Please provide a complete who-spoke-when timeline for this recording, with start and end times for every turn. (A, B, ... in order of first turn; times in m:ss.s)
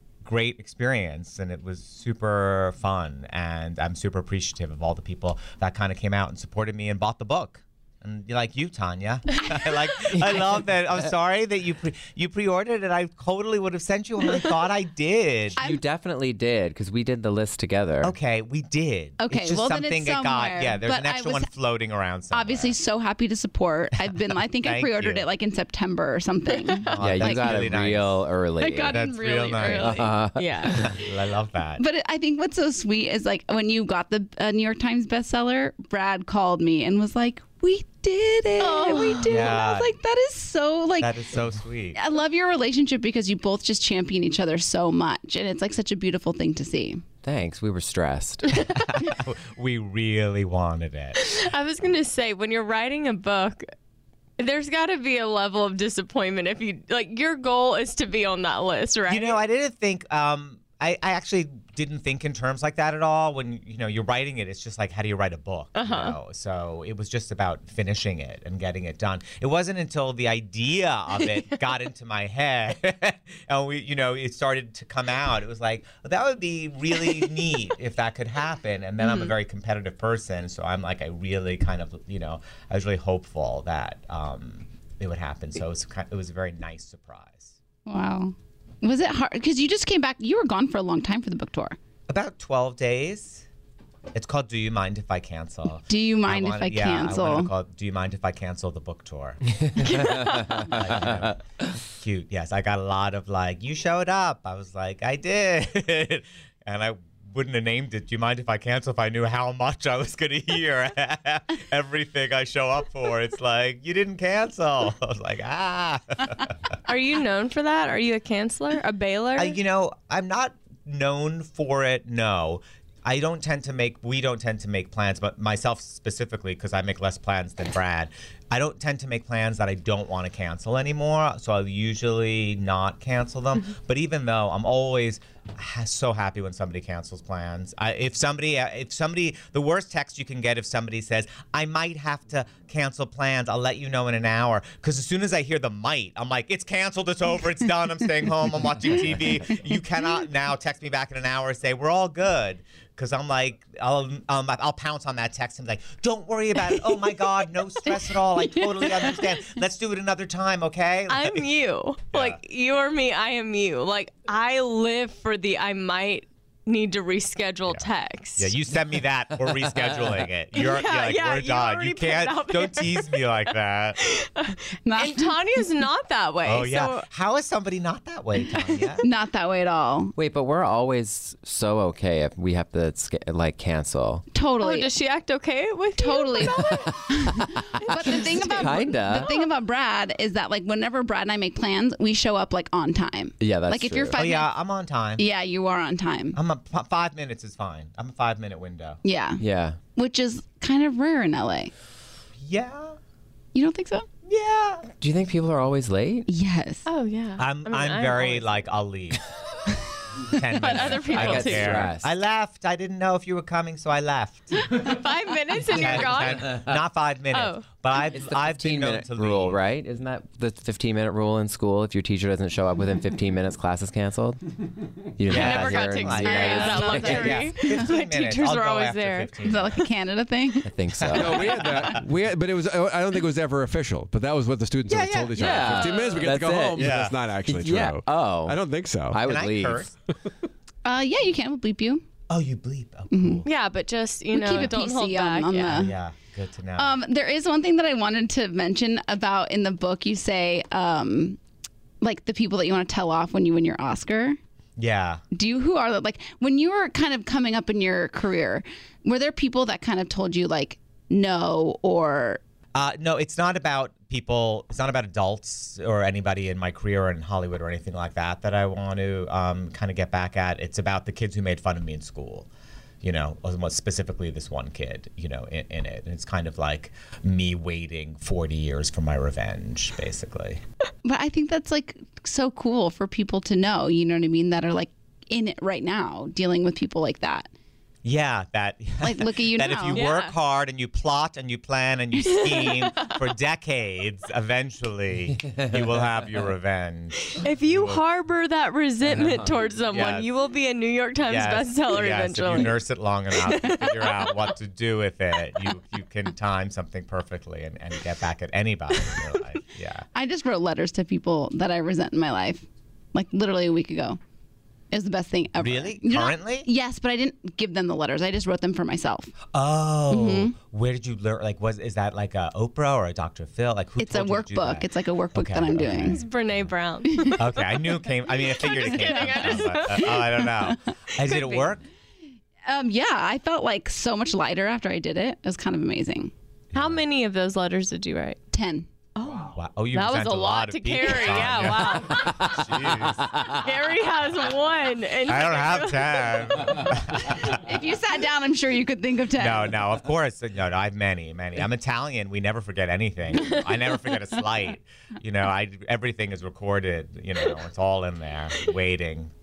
0:00.2-0:15.6 A
0:10.1-0:11.1 B
0:15.6-0:15.8 C
0:15.6-0:18.2 B
0:18.0-0:22.8 A
0:19.2-0:21.5 C
0:22.3-0:27.6 C
0:24.1-0:25.3 A
0:26.9-0:28.3 A
0:27.0-0:29.0 B
0:28.6-0:30.2 C
0:28.8-0:30.0 A
0:29.6-0:30.9 D
0:29.7-0:30.9 B
0:30.6-0:31.8 A
0:31.8-0:41.3 C
0:38.6-0:39.6 D
0:39.2-0:39.9 A
0:41.0-0:42.0 A
0:41.9-0:47.0 C
0:47.2-0:48.6 B
0:48.7-0:51.2 A
0:51.2-0:53.7 D
0:54.4-0:59.4 D
0:59.1-1:27.6 A
1:05.7-1:06.1 D
1:19.0-1:19.3 D
1:27.8-1:31.8 C
1:32.1-1:33.4 A
1:34.1-1:41.4 A
1:35.9-1:37.5 C
1:39.8-1:41.3 B
1:41.9-1:56.5 A
1:56.8-1:59.6 D
1:59.4-2:41.4 A
2:38.4-2:39.4 C
2:41.1-2:48.5 D
2:42.1-2:42.4 A
2:48.4-2:54.0 A
2:49.4-2:50.2 B
2:50.5-2:57.1 D
2:54.8-2:55.4 C
2:56.4-2:59.0 A
2:59.0-3:00.1 C
3:00.2-3:04.2 B
3:04.3-3:04.9 C
3:04.6-3:07.0 D
3:06.0-3:14.5 C
3:06.6-3:09.3 B
3:07.8-3:09.5 D
3:13.4-3:14.2 B
3:14.1-3:15.2 A
3:15.2-3:16.4 C
3:16.3-3:19.0 A
3:19.0-3:19.4 C
3:19.4-3:19.8 B
3:20.0-3:21.7 C
3:22.4-3:23.0 A
3:23.5-3:24.1 C
3:24.2-3:24.9 A
3:25.0-3:26.3 B
3:26.3-3:26.8 C
3:26.8-3:28.6 D
3:27.4-3:29.2 A
3:30.3-3:34.7 A
3:30.5-3:31.9 D
3:30.6-3:32.1 B
3:34.7-3:36.5 D
3:35.6-3:39.6 A
3:35.8-3:36.8 B
3:37.3-3:37.6 D
3:38.1-3:44.4 B
3:45.2-3:47.5 B
3:45.3-3:49.8 A
3:45.3-3:49.3 D
3:46.4-3:47.8 C
3:49.4-3:50.7 C
3:50.6-3:51.5 B
3:51.0-3:52.0 A
3:51.1-3:59.2 E
3:54.9-3:56.1 A
3:55.4-3:58.6 B
3:56.8-3:57.2 A
3:59.1-3:59.9 B
3:59.2-3:59.9 A
4:00.8-4:02.0 C
4:02.3-4:03.4 A
4:03.1-4:03.4 C
4:03.4-4:05.9 D
4:04.3-4:05.9 C
4:05.6-4:07.0 A
4:06.8-4:11.4 C
4:12.0-4:14.4 C
4:14.8-4:15.2 A
4:15.3-4:22.4 C
4:22.7-4:32.5 A
4:33.0-4:40.6 A
4:41.0-4:47.5 C
4:48.0-4:58.0 A
4:49.0-4:50.1 C
4:49.9-4:50.3 D
4:52.2-4:53.2 D
4:55.4-4:56.5 B
4:57.3-5:02.8 D
4:59.0-4:59.7 B
4:59.9-5:00.3 A
5:01.2-5:10.1 A
5:03.5-5:04.3 D
5:10.1-5:14.2 C
5:14.9-5:19.3 C
5:15.6-5:16.7 A
5:19.5-5:26.6 A
5:20.1-5:20.5 C
5:24.0-5:26.2 C
5:25.8-5:27.7 D
5:27.1-5:27.4 C
5:27.4-5:31.8 A
5:28.5-5:30.5 D
5:28.7-5:30.8 C
5:31.2-5:31.7 D
5:32.6-5:36.3 C
5:36.7-5:37.0 A
5:36.7-5:38.4 D
5:38.5-5:38.9 C
5:39.2-5:42.5 D
5:39.5-5:43.2 A
5:42.2-5:43.6 B
5:43.5-5:46.4 D
5:45.2-5:47.7 A
5:47.5-5:49.8 C
5:49.4-5:59.3 A